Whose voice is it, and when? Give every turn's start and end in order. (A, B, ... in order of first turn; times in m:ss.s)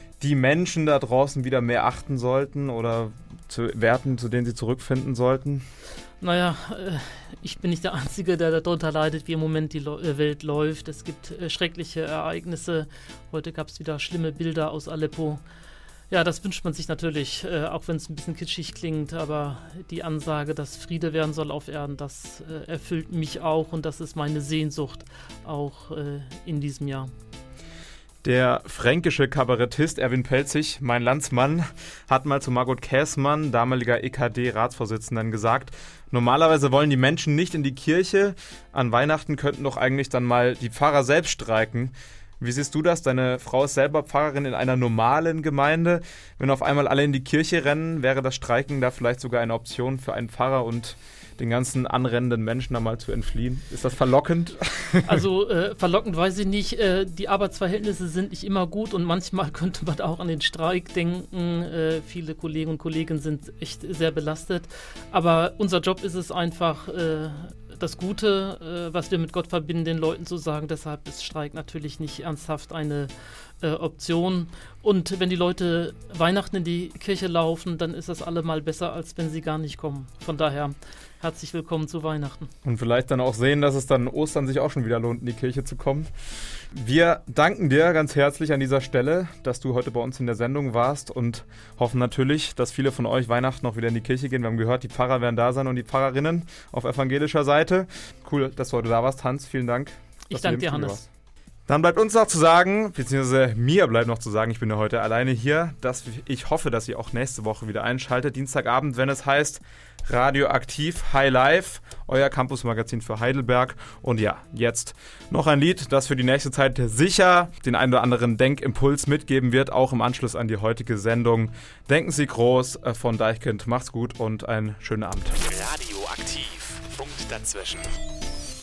0:00.2-0:05.6 A
0:06.2-0:15.4 B
0:16.1-0:27.1 B
0:28.2-0:55.2 A
0:55.0-1:22.5 B
1:22.6-1:26.1 A
1:26.7-1:41.1 A
1:40.3-1:41.0 B
1:41.7-2:05.4 A
2:05.4-2:07.9 C